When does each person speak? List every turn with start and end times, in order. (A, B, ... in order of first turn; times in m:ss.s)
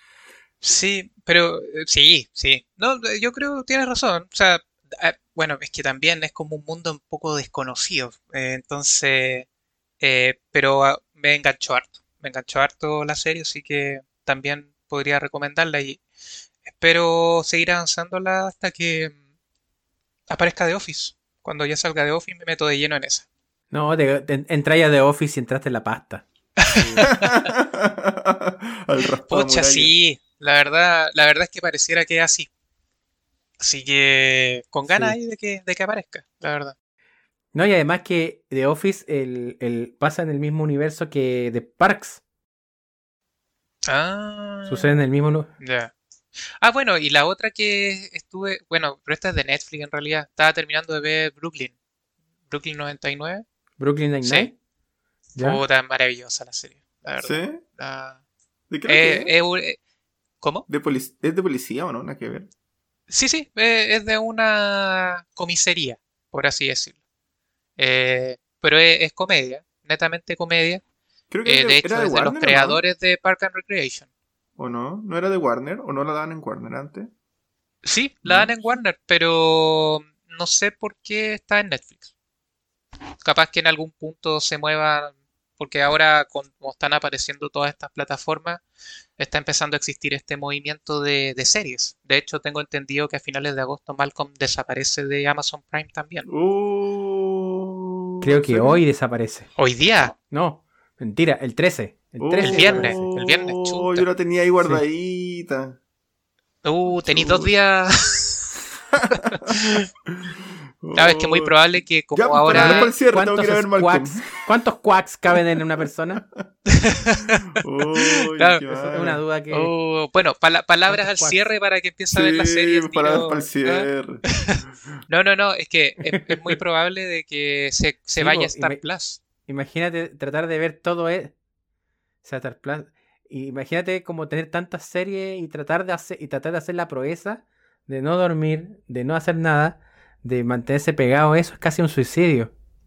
0:00.6-0:09.5 A
0:10.0-0:16.0 A
0:16.6-0:19.1 A
0:20.3-0:23.3 A
0:23.7-0:27.0 B
0:26.6-0:27.5 A
0:27.0-0:29.9 C
0:29.3-0:32.5 A
0:33.6-0:36.7 A
0:34.9-0:35.2 B
0:37.5-0:42.2 B
0:43.9-0:45.0 A
0:44.7-0:45.5 B
0:45.6-0:45.9 A
0:46.6-0:51.7 A
0:52.5-0:53.4 A
0:53.8-0:54.5 B
0:54.2-0:54.5 A
0:55.4-0:55.6 B
0:55.4-0:58.2 A
0:57.2-0:57.6 C
0:58.7-0:59.3 C
0:58.8-0:59.8 A
1:00.4-1:00.6 A
1:00.7-1:02.5 C
1:03.1-1:07.0 A
1:07.8-1:10.8 A
1:11.3-1:12.8 C
1:11.4-1:14.0 A
1:14.6-1:17.1 C
1:17.8-1:22.0 A
1:18.2-1:18.5 C
1:23.2-1:28.6 A
1:29.2-1:36.3 A
1:36.3-1:38.8 C
1:38.2-1:39.5 B
1:39.6-1:40.1 A
1:40.3-1:43.1 B
1:42.2-1:45.8 C
1:42.4-1:44.1 A
1:46.6-1:48.5 A
1:46.9-1:47.5 C
1:49.3-1:49.8 A
1:50.8-1:51.5 C
1:50.9-1:52.9 A
1:52.1-1:54.3 C
1:52.5-1:56.2 B
1:56.7-1:57.5 A
1:57.6-1:59.2 C
1:58.3-1:58.6 A
1:58.6-1:59.7 B
1:59.5-2:03.9 A
2:00.9-2:01.4 B
2:02.1-2:04.2 C
2:04.4-2:09.2 A
2:06.1-2:06.5 B
2:08.2-2:08.8 B
2:09.5-2:11.3 B
2:12.2-2:22.5 B